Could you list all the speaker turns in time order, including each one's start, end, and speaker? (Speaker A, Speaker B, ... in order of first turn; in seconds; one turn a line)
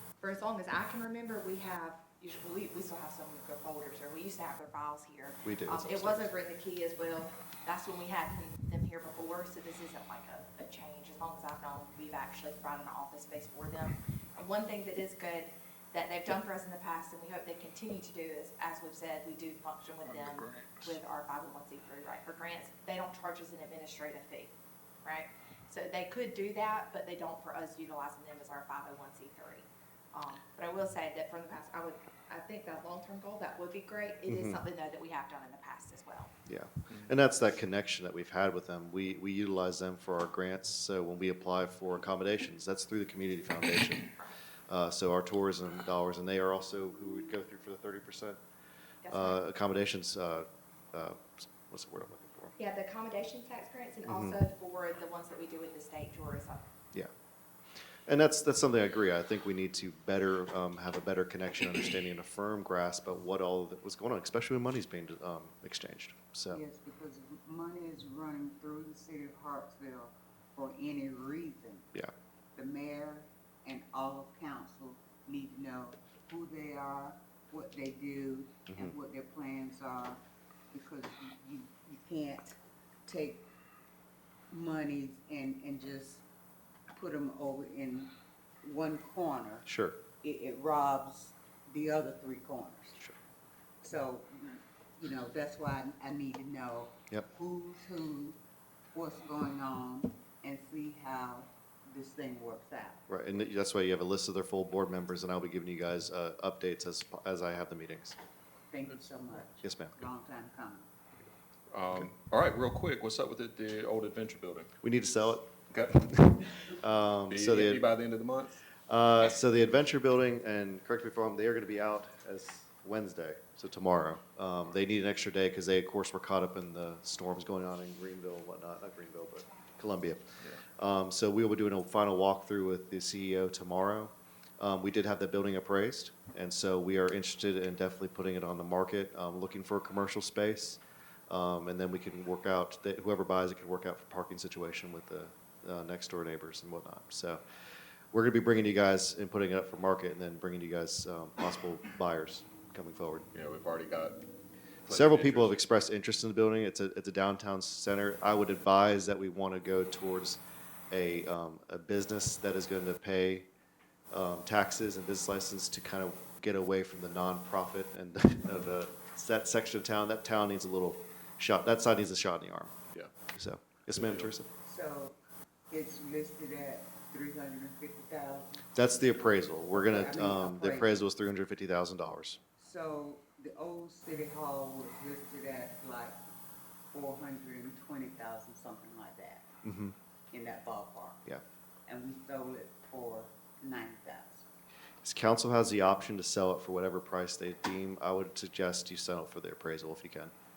Speaker A: 0.2-24.5
Speaker B: 5.4-6.3
Speaker A: 25.0-36.3
Speaker B: 34.3-34.6
Speaker B: 36.5-44.1
Speaker B: 44.7-48.4
Speaker A: 49.0-49.4
Speaker B: 49.1-52.5
Speaker A: 52.6-56.6
Speaker B: 54.0-54.4
Speaker B: 58.1-66.6
Speaker C: 66.5-71.9
Speaker C: 72.5-80.2
Speaker C: 80.7-83.5
Speaker C: 84.5-86.2
Speaker C: 86.9-89.7
Speaker B: 89.7-90.0
Speaker C: 90.2-93.0
Speaker C: 93.8-98.4
Speaker C: 98.9-103.0
Speaker B: 103.1-108.2
Speaker C: 108.7-110.9
Speaker B: 109.6-110.0
Speaker D: 111.7-114.7
Speaker B: 114.8-117.9
Speaker D: 115.7-116.0
Speaker D: 117.3-118.6
Speaker B: 118.9-147.4
Speaker B: 148.1-153.3
Speaker D: 153.3-154.2
Speaker D: 154.8-155.6
Speaker B: 154.9-163.5
Speaker B: 164.1-172.7
Speaker B: 173.3-174.5
Speaker D: 174.0-174.3
Speaker C: 174.6-175.2
Speaker C: 175.7-178.7
Speaker B: 178.7-182.4
Speaker C: 179.7-180.9
Speaker C: 182.6-186.2
Speaker C: 186.9-189.5
Speaker B: 189.6-189.9
Speaker C: 190.3-191.2
Speaker C: 191.9-194.5
Speaker B: 195.0-200.3